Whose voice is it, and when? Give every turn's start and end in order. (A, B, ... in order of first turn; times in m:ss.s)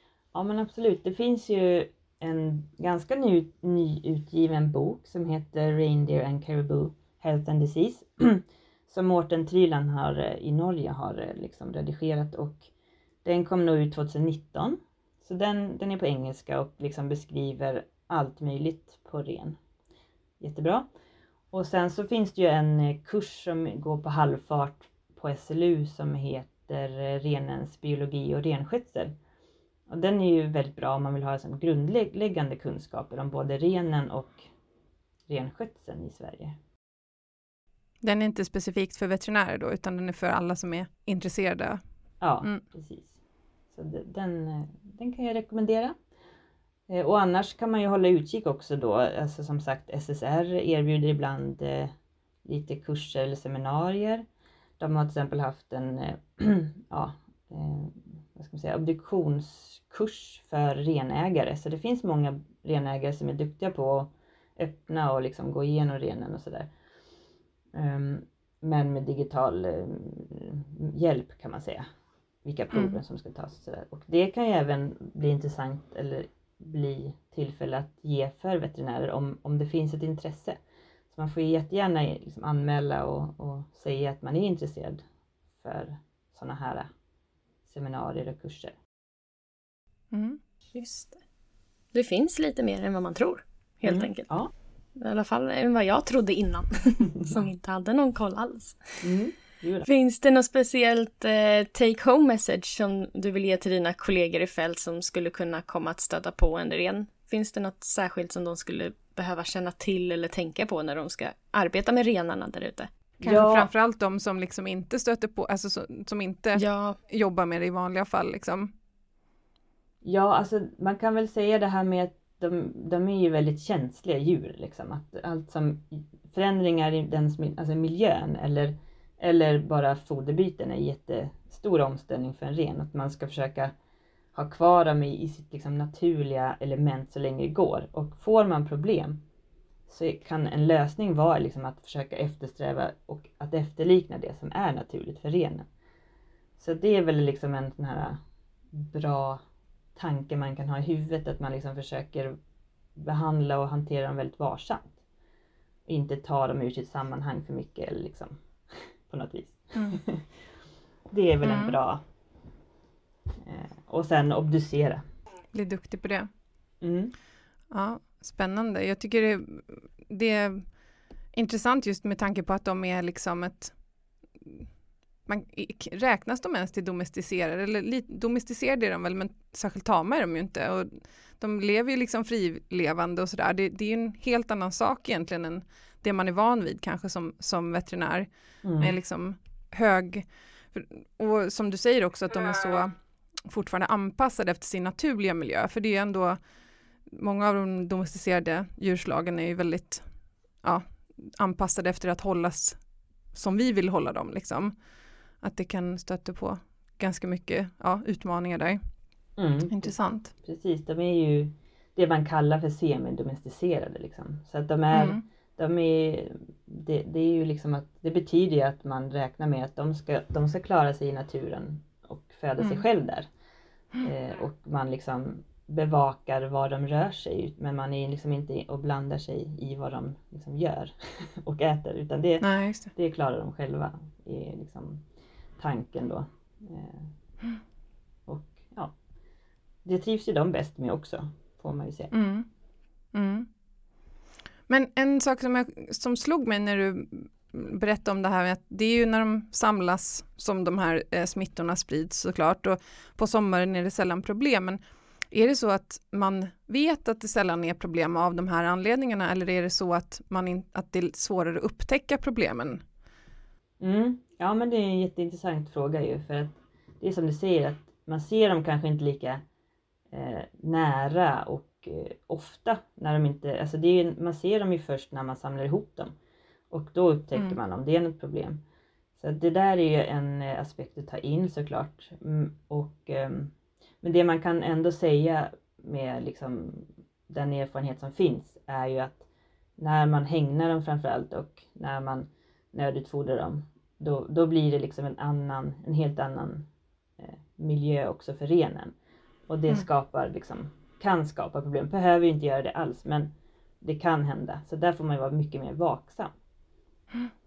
0:00.3-0:12.7 A
0:13.2-0:19.6 A
0:20.4-0:20.9 A
0:21.5-0:29.1 A
0:29.9-0:34.5 A
0:35.3-0:36.6 A
0:38.0-0:41.8 B
0:42.2-0:43.2 A
0:43.7-0:46.0 A
0:46.9-0:51.9 A
0:52.5-0:54.2 A
0:54.8-1:06.7 A
1:07.7-1:11.9 A
1:12.4-1:20.6 A
1:12.7-1:13.0 B
1:21.1-1:25.0 A
1:25.6-1:26.9 A
1:27.7-1:28.8 A
1:30.1-1:30.4 B
1:30.7-1:31.2 C
1:31.9-1:34.3 C
1:33.8-1:34.5 A
1:35.0-1:39.0 C
1:39.0-1:39.9 A
1:39.9-1:52.9 C
1:53.2-1:58.7 B
1:53.2-1:53.7 A
1:56.6-1:57.0 C
2:00.0-2:13.7 A
2:14.3-2:19.2 A
2:19.9-2:25.7 A
2:26.6-2:28.2 A
2:28.7-2:29.4 A
2:30.0-2:32.4 A
2:33.0-2:35.0 A
2:35.9-2:40.3 A
2:41.1-2:42.0 A
2:41.4-2:41.8 B
2:43.4-2:45.0 A
2:45.5-2:46.3 B
2:46.8-2:47.1 A
2:47.7-2:50.7 B
2:51.3-2:53.7 B
2:54.4-2:54.7 B
2:55.3-3:12.9 B
3:08.6-3:08.9 A
3:13.4-3:16.4 B
3:17.1-3:20.0 B
3:20.6-3:22.8 B
3:23.3-3:24.7 B
3:25.4-3:28.8 B
3:29.4-3:43.3 A
3:29.7-3:30.3 B
3:34.9-3:35.2 B
3:44.0-3:55.0 A
3:52.4-3:52.9 B
3:55.6-3:57.1 A
3:58.3-3:59.0 A
3:59.8-4:02.1 A
4:02.1-4:02.5 B
4:03.1-4:03.5 B
4:04.7-4:14.8 B
4:15.3-4:22.8 B
4:23.8-4:29.4 A
4:30.1-4:36.1 A
4:36.7-4:38.6 A
4:39.2-4:56.7 A
4:57.2-4:59.0 A
4:59.5-5:03.3 A
5:03.8-5:06.3 A